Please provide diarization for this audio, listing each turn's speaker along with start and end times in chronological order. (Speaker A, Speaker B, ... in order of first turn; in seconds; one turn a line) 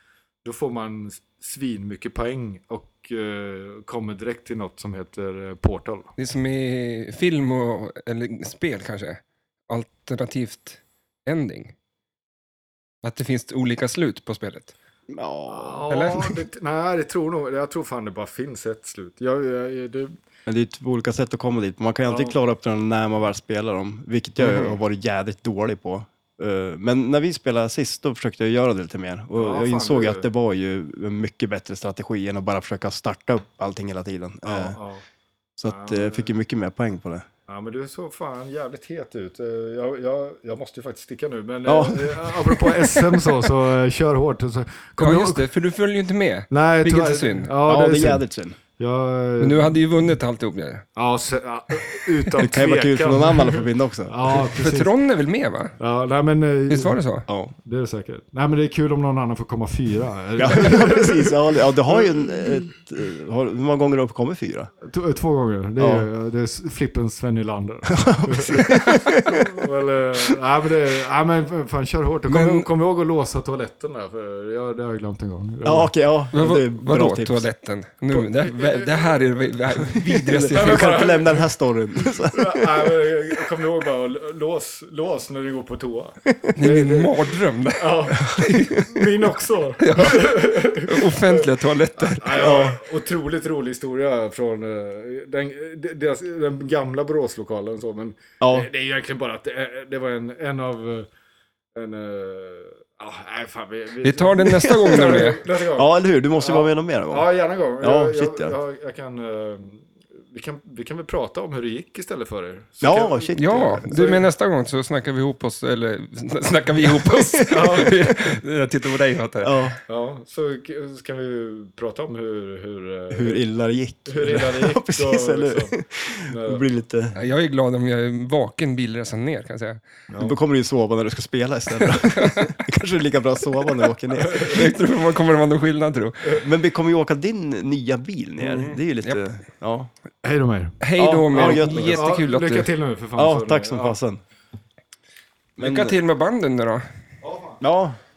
Speaker A: 0.4-6.1
Speaker B: 6.2-11.7
Speaker B: 13.0-14.7
Speaker C: 15.1-15.9
Speaker A: 15.5-20.1
Speaker B: 15.9-16.3
Speaker C: 20.5-34.8
Speaker A: 22.1-22.4
Speaker B: 24.4-24.8
Speaker A: 29.3-30.3
Speaker A: 34.4-35.0
Speaker C: 35.6-37.3
Speaker A: 35.6-36.3
Speaker A: 37.5-45.5
Speaker C: 41.7-42.8
Speaker B: 45.0-47.5
Speaker A: 46.5-48.2
Speaker C: 47.7-48.6
Speaker A: 48.8-49.8
Speaker B: 49.4-50.9
Speaker A: 51.0-55.0
Speaker C: 52.4-54.4
Speaker B: 54.4-55.8
Speaker A: 55.8-57.0
Speaker B: 56.7-57.3
Speaker C: 57.3-57.5
Speaker A: 57.6-62.7
Speaker C: 60.4-64.7
Speaker A: 64.8-75.9
Speaker C: 65.8-66.1
Speaker C: 67.9-69.6
Speaker B: 68.8-69.1
Speaker B: 72.3-72.7
Speaker C: 75.6-77.5
Speaker B: 76.3-81.0
Speaker A: 78.4-79.1
Speaker C: 79.9-82.9
Speaker A: 80.5-81.5
Speaker A: 82.2-101.1
Speaker B: 86.6-88.8
Speaker C: 88.2-89.0
Speaker B: 89.8-92.5
Speaker C: 92.3-92.8
Speaker C: 98.4-98.7
Speaker A: 101.8-114.2
Speaker B: 104.0-105.4
Speaker C: 104.5-107.3
Speaker C: 107.8-108.5
Speaker C: 112.8-113.9
Speaker B: 113.4-119.6
Speaker C: 117.1-117.6
Speaker A: 117.5-118.1
Speaker C: 119.4-119.8
Speaker A: 119.9-123.4
Speaker C: 123.1-127.2
Speaker A: 124.1-126.6
Speaker B: 127.2-129.8
Speaker A: 130.1-130.4
Speaker C: 130.2-134.7
Speaker B: 131.8-132.6
Speaker A: 134.2-134.7
Speaker B: 134.4-136.4
Speaker C: 136.3-139.9
Speaker B: 138.4-139.2
Speaker A: 140.2-144.0
Speaker B: 140.8-142.7
Speaker C: 141.0-142.1
Speaker C: 143.2-144.2
Speaker C: 145.6-146.0
Speaker B: 145.6-146.8
Speaker A: 147.2-147.6
Speaker C: 147.6-148.0